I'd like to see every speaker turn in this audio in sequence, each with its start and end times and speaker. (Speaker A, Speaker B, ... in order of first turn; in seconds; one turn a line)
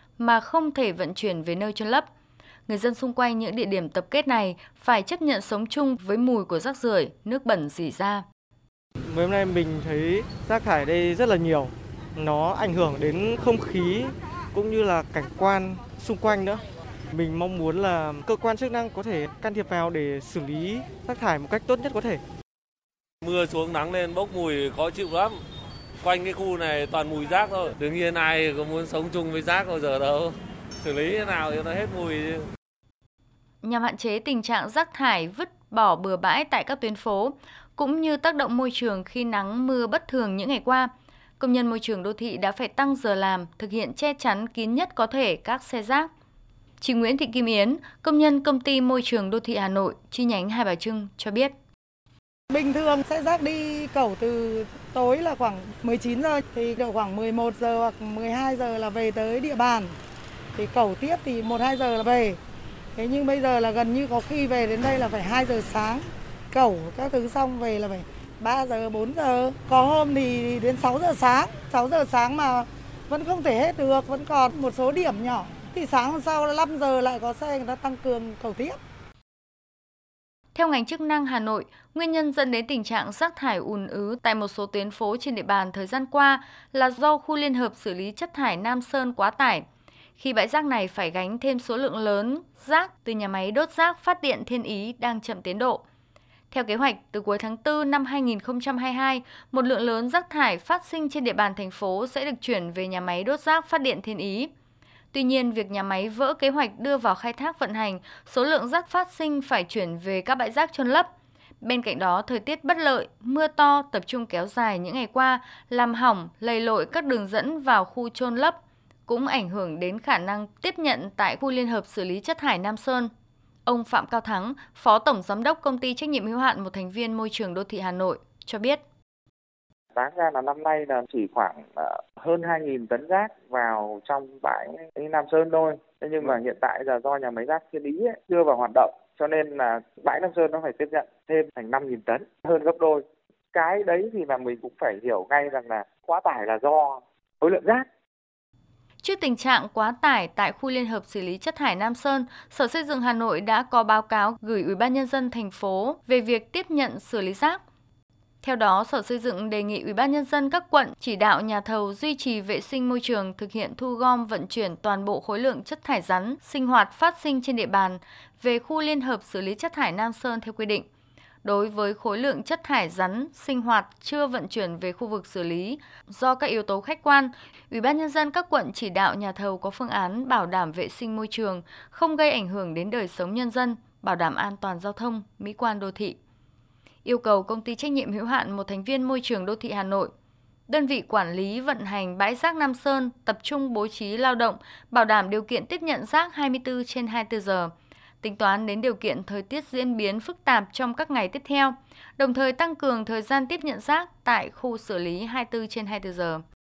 Speaker A: 0.2-2.1
Speaker A: 2.7-8.3
Speaker B: 9.1-22.2
Speaker C: 23.2-25.4
Speaker C: 26.0-32.5
Speaker A: 33.6-46.1
Speaker A: 46.8-51.5
Speaker D: 52.5-59.9
Speaker D: 60.5-62.4
Speaker D: 63.0-78.8
Speaker A: 80.5-89.7
Speaker A: 90.2-95.8
Speaker A: 96.5-104.5
Speaker A: 105.1-111.1
Speaker A: 111.6-123.1
Speaker A: 123.7-128.8
Speaker E: 129.9-143.0
Speaker E: 143.5-147.9
Speaker A: 149.0-157.6
Speaker A: 158.4-170.9
Speaker A: 171.4-186.2
Speaker A: 187.0-190.1
Speaker A: 190.7-206.4